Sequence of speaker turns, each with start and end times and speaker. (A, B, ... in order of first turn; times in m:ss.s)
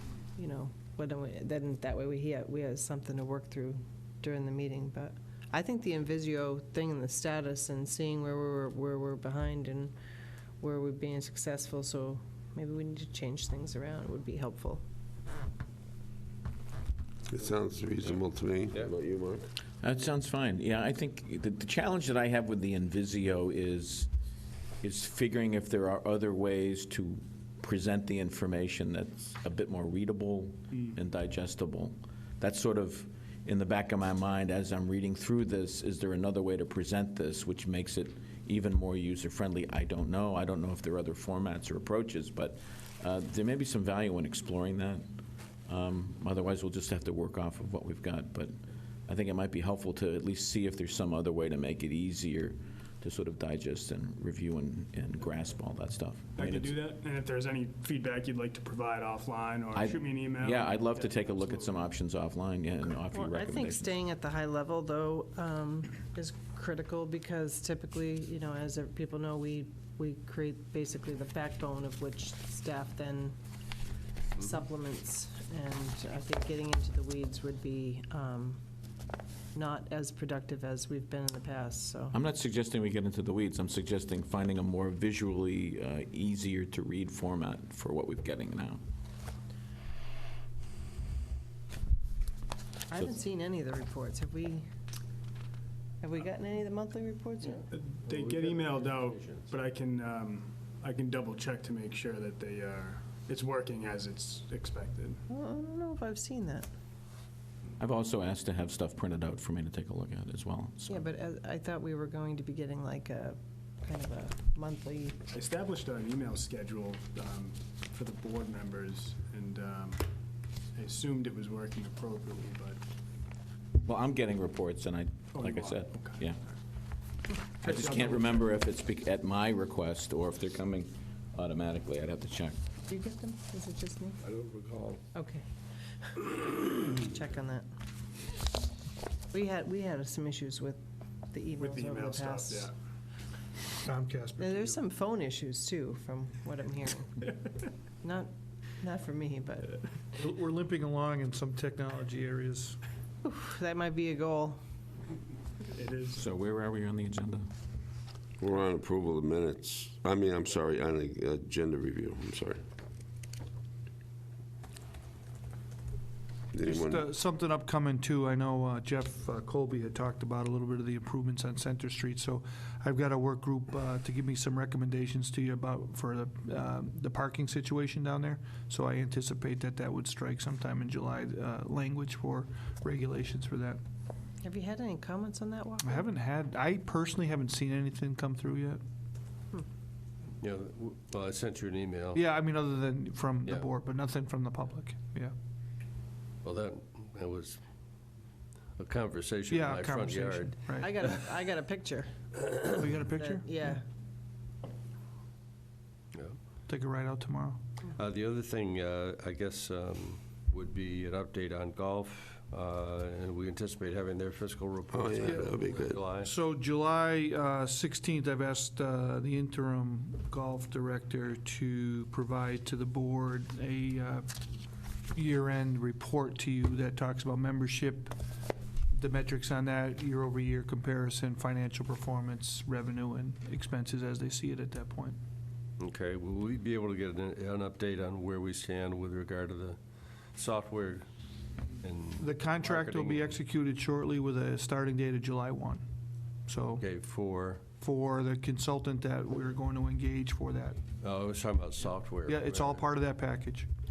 0:00.4-0:09.9 A
0:10.6-0:14.8 A
0:17.3-0:19.4 B
0:19.8-0:24.1 C
0:24.8-0:45.0 C
0:45.7-0:48.5 C
0:49.1-0:56.8 C
0:56.4-1:01.8 D
0:59.7-1:03.9 C
1:03.1-1:13.3 A
1:14.4-1:18.6 A
1:19.5-1:22.2 A
1:22.1-1:28.8 C
1:32.9-1:34.7 A
1:36.0-1:37.7 A
1:37.7-1:45.2 D
1:38.1-1:39.5 E
1:45.3-1:46.7 A
1:47.8-1:51.0 C
1:50.9-1:55.2 A
1:55.3-2:00.0 D
2:00.7-2:02.8 D
2:03.8-2:06.4 C
2:05.3-2:06.3 D
2:07.6-2:08.5 D
2:07.6-2:12.6 C
2:12.9-2:14.2 A
2:14.2-2:15.0 E
2:15.1-2:15.4 A
2:16.2-2:17.6 A
2:19.3-2:20.8 A
2:21.3-2:22.7 A
2:21.6-2:22.7 D
2:23.8-2:24.8 F
2:24.4-2:27.3 A
2:28.0-2:29.8 A
2:30.1-2:32.8 F
2:33.2-2:34.6 A
2:35.6-2:36.2 D
2:36.1-2:37.5 C
2:38.4-2:42.6 B
2:46.5-2:47.1 B
2:46.6-3:03.8 F
3:04.4-3:06.1 A
3:05.8-3:08.8 F
3:10.4-3:12.2 E
3:12.1-3:15.3 F
3:16.4-3:17.6 E
3:18.8-3:20.6 E
3:19.5-3:21.0 F
3:20.8-3:23.8 A
3:22.7-3:23.8 F
3:26.1-3:26.4 E
3:26.7-3:27.6 F
3:28.0-3:36.3 E
3:34.9-3:36.1 B
3:35.2-3:35.6 F
3:36.2-3:44.3 F
3:45.1-3:48.2 F
3:48.9-3:55.2 F
3:55.8-4:01.1 E
4:01.8-4:03.3 E
4:02.2-4:05.8 F
4:06.5-4:06.8 F
4:06.8-4:07.6 E
4:07.8-4:10.8 F
4:11.0-4:12.8 E
4:12.2-4:13.7 F